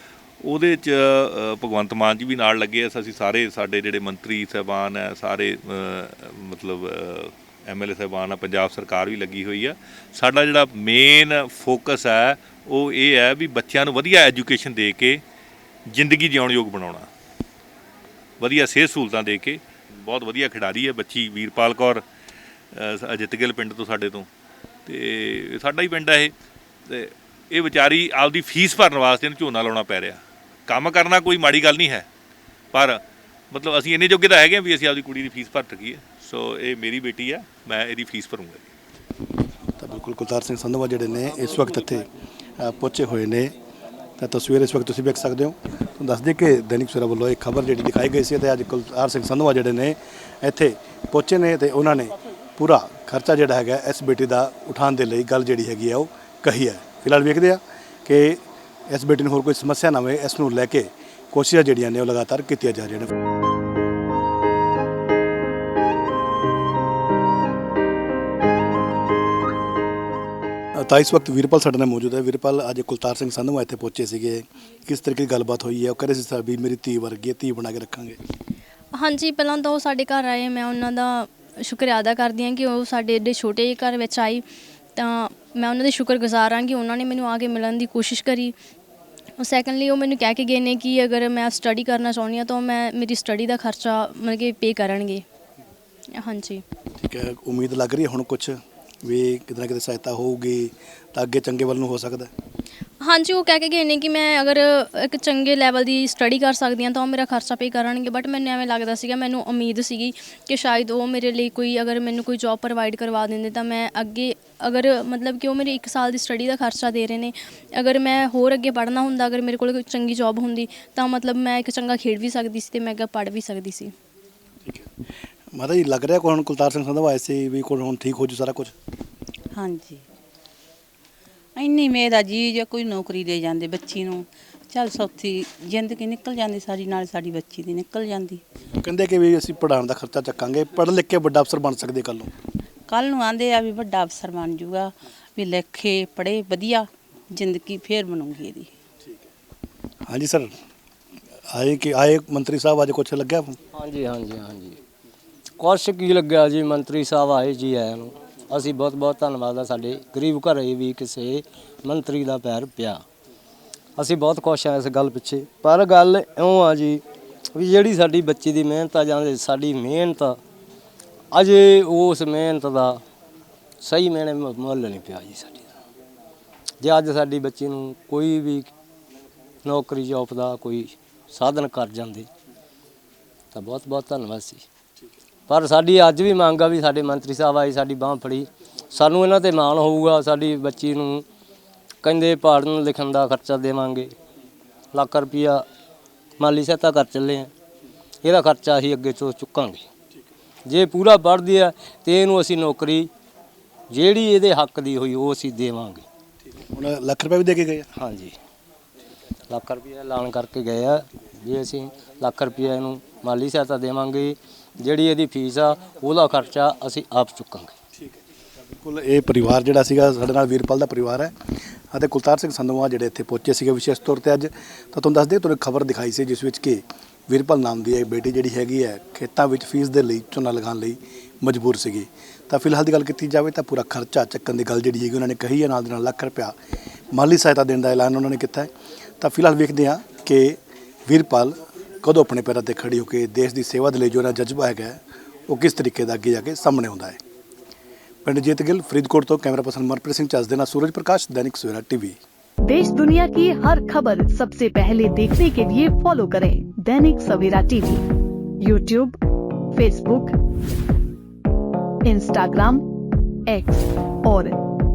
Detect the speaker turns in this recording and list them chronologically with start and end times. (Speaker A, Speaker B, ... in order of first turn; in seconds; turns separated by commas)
Speaker A: 0.4-15.2, Speaker A: 15.9-17.1, Speaker A: 18.4-22.0, Speaker A: 22.7-24.3, Speaker A: 24.9-26.3, Speaker A: 26.9-32.1, Speaker A: 32.7-38.7, Speaker B: 39.8-42.1, Speaker B: 42.6-43.5, Speaker B: 44.2-63.1, Speaker B: 70.8-78.2, Speaker C: 78.9-84.4, Speaker C: 85.0-88.5, Speaker C: 89.4-95.2, Speaker C: 96.2-96.6, Speaker B: 97.0-102.3, Speaker C: 103.0-123.9, Speaker B: 125.5-128.7, Speaker D: 129.5-130.0, Speaker D: 131.6-138.4, Speaker B: 138.8-142.3, Speaker D: 142.9-148.7, Speaker B: 150.1-150.5, Speaker B: 151.5-153.5, Speaker E: 153.7-154.8, Speaker E: 155.6-163.0, Speaker E: 164.0-167.0, Speaker E: 167.5-170.4, Speaker E: 171.3-173.0, Speaker E: 173.8-175.7, Speaker E: 176.8-178.7, Speaker E: 179.6-182.3, Speaker E: 183.5-184.6, Speaker E: 185.5-191.2, Speaker E: 192.0-194.1, Speaker E: 194.9-195.7, Speaker E: 196.4-197.5, Speaker E: 198.2-199.9, Speaker E: 200.7-203.1, Speaker E: 203.9-206.1, Speaker B: 206.6-207.9, Speaker E: 207.9-208.4, Speaker E: 209.5-217.8, Speaker B: 218.8-221.3, Speaker B: 221.9-236.5, Speaker B: 237.1-238.7, Speaker B: 239.2-240.6, Speaker B: 241.1-247.2, Speaker B: 248.2-252.2, Speaker F: 252.6-258.0, Speaker F: 258.6-259.2, Speaker F: 259.7-260.4, Speaker F: 262.1-262.8, Speaker F: 263.5-264.6